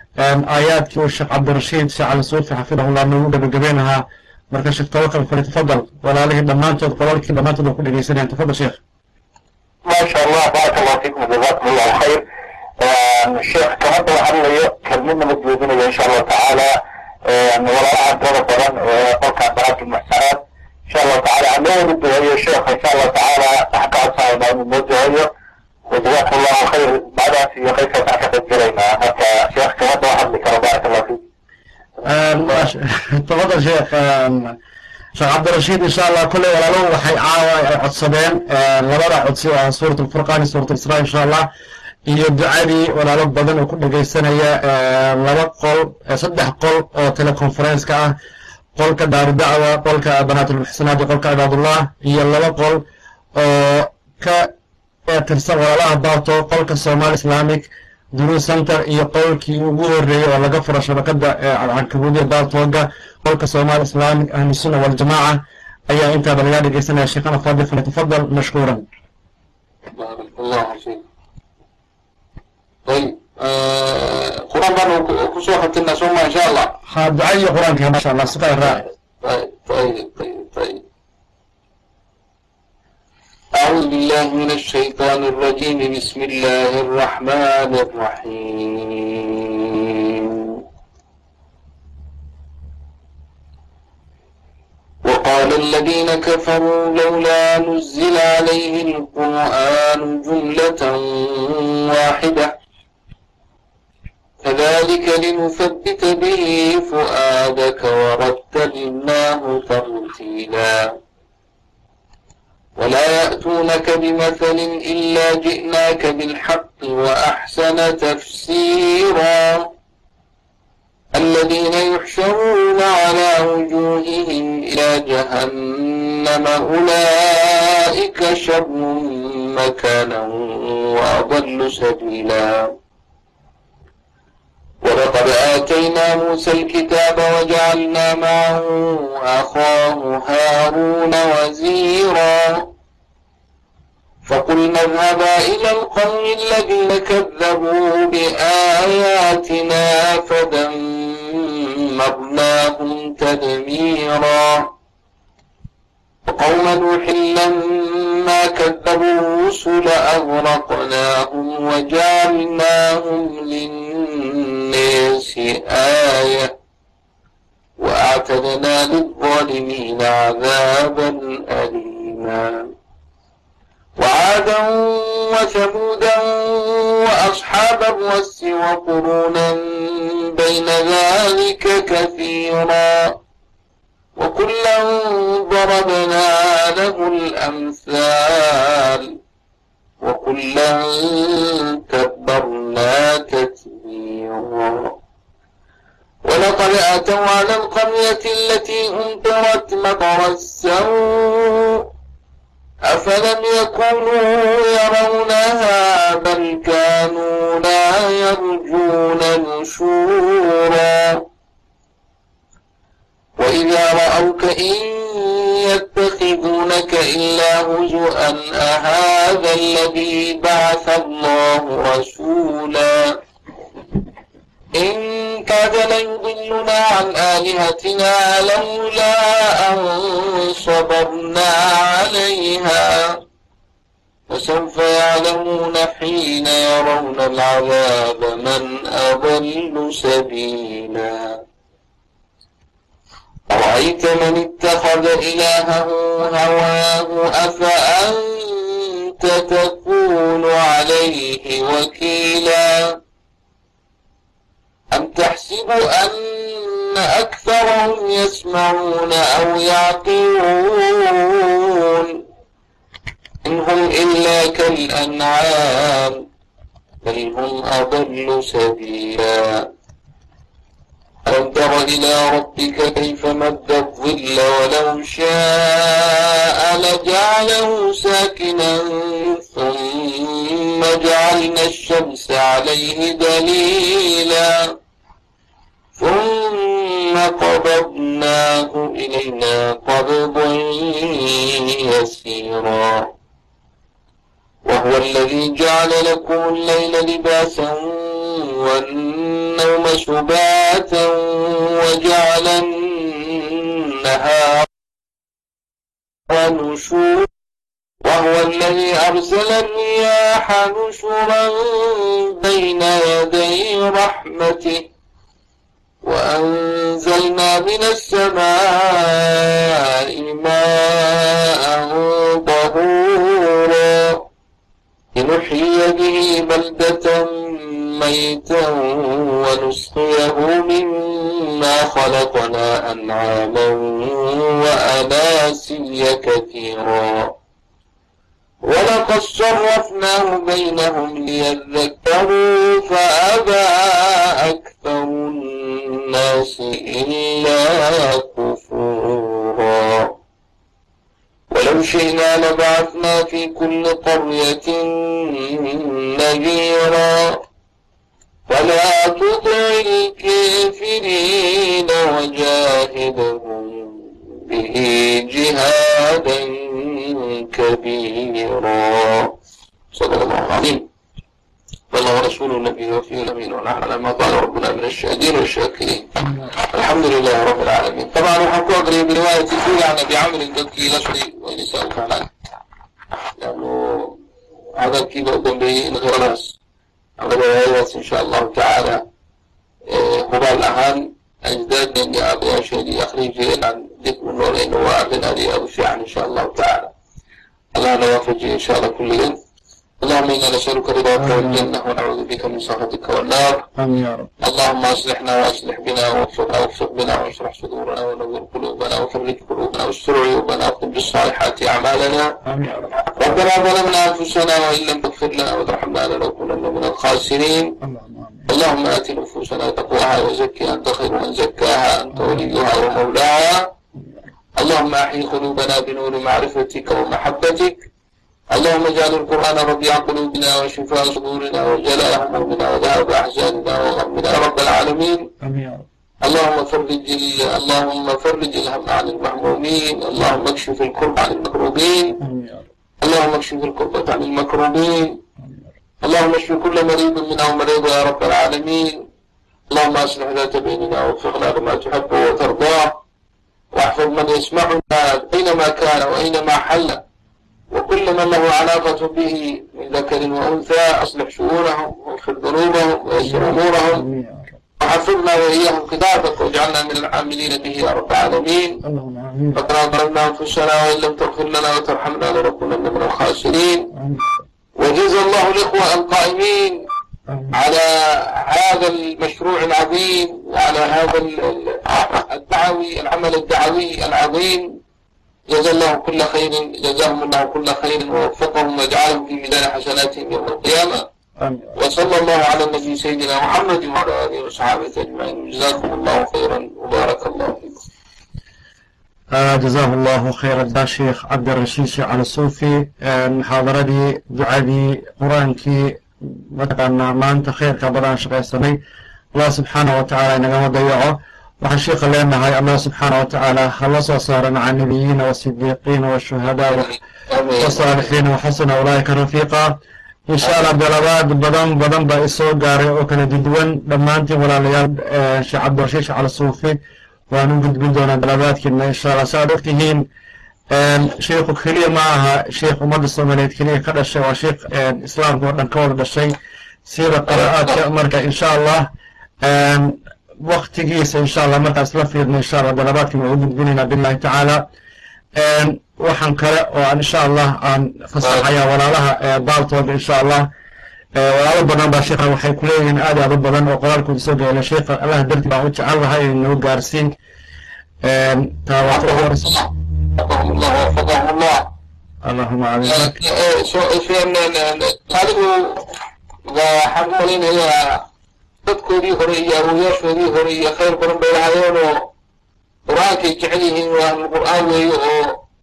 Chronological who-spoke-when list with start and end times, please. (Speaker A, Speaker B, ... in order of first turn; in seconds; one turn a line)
Speaker A: 0.2-8.8
Speaker B: 9.8-12.2
Speaker B: 12.8-16.7
Speaker B: 17.2-25.3
Speaker B: 25.9-31.2
Speaker A: 32.0-34.5
Speaker A: 35.1-41.5
Speaker A: 42.1-48.1
Speaker A: 48.8-52.8
Speaker A: 53.3-54.5
Speaker A: 55.1-68.8
Speaker C: 69.9-71.0
Speaker C: 72.8-76.8
Speaker A: 76.9-78.8
Speaker C: 78.6-80.8
Speaker C: 83.6-90.6
Speaker C: 95.0-102.5
Speaker C: 104.4-110.8
Speaker C: 112.8-119.7
Speaker C: 121.1-132.7
Speaker C: 134.8-142.7
Speaker C: 144.2-154.7
Speaker C: 156.3-166.5
Speaker C: 167.8-172.7
Speaker C: 174.0-183.1
Speaker C: 184.2-189.1
Speaker C: 190.0-194.9
Speaker C: 196.2-201.8
Speaker C: 202.9-211.2
Speaker C: 213.4-223.0
Speaker C: 224.8-233.2
Speaker C: 234.3-241.4
Speaker C: 243.5-252.9
Speaker C: 254.9-262.2
Speaker C: 263.4-266.2
Speaker C: 267.0-269.7
Speaker C: 271.2-284.6
Speaker C: 286.0-293.1
Speaker C: 294.6-304.6
Speaker C: 306.3-307.3
Speaker C: 308.0-314.9
Speaker C: 316.0-324.2
Speaker C: 325.1-337.3
Speaker C: 338.6-350.1
Speaker C: 351.5-357.4
Speaker C: 358.5-369.3
Speaker C: 369.9-370.9
Speaker C: 371.9-376.1
Speaker C: 376.6-382.3
Speaker C: 383.4-384.2
Speaker C: 384.8-386.6
Speaker C: 387.2-389.0
Speaker C: 389.9-396.9
Speaker C: 397.7-399.4
Speaker C: 400.0-403.7
Speaker A: 401.2-401.7
Speaker A: 403.8-404.3
Speaker C: 404.4-412.3
Speaker A: 412.4-413.1
Speaker C: 413.1-417.7
Speaker A: 417.8-418.5
Speaker C: 418.5-423.7
Speaker A: 422.1-422.5
Speaker C: 424.6-427.9
Speaker C: 428.5-435.3
Speaker A: 435.4-435.9
Speaker C: 436.2-442.2
Speaker A: 442.2-442.7
Speaker C: 443.0-445.2
Speaker C: 446.0-449.1
Speaker C: 449.7-453.0
Speaker C: 453.7-457.0
Speaker C: 457.7-464.0
Speaker A: 463.2-464.6
Speaker C: 464.8-468.8
Speaker A: 468.8-469.6
Speaker C: 469.6-473.9
Speaker A: 473.9-474.4
Speaker C: 474.8-476.8
Speaker A: 477.3-477.6
Speaker C: 477.5-484.8
Speaker C: 485.5-491.1
Speaker A: 491.4-491.7
Speaker C: 491.8-497.8
Speaker A: 499.3-508.8
Speaker A: 509.3-516.9
Speaker C: 516.7-518.1
Speaker A: 517.6-526.8
Speaker C: 520.4-520.7
Speaker A: 527.3-530.1
Speaker A: 530.7-538.9
Speaker C: 537.3-537.8
Speaker A: 539.4-544.6
Speaker A: 545.4-550.5
Speaker A: 551.1-557.1
Speaker A: 558.0-559.6
Speaker C: 558.9-561.7
Speaker A: 562.2-563.2
Speaker C: 562.8-565.9
Speaker C: 566.5-568.0
Speaker C: 568.6-572.1
Speaker C: 572.9-575.4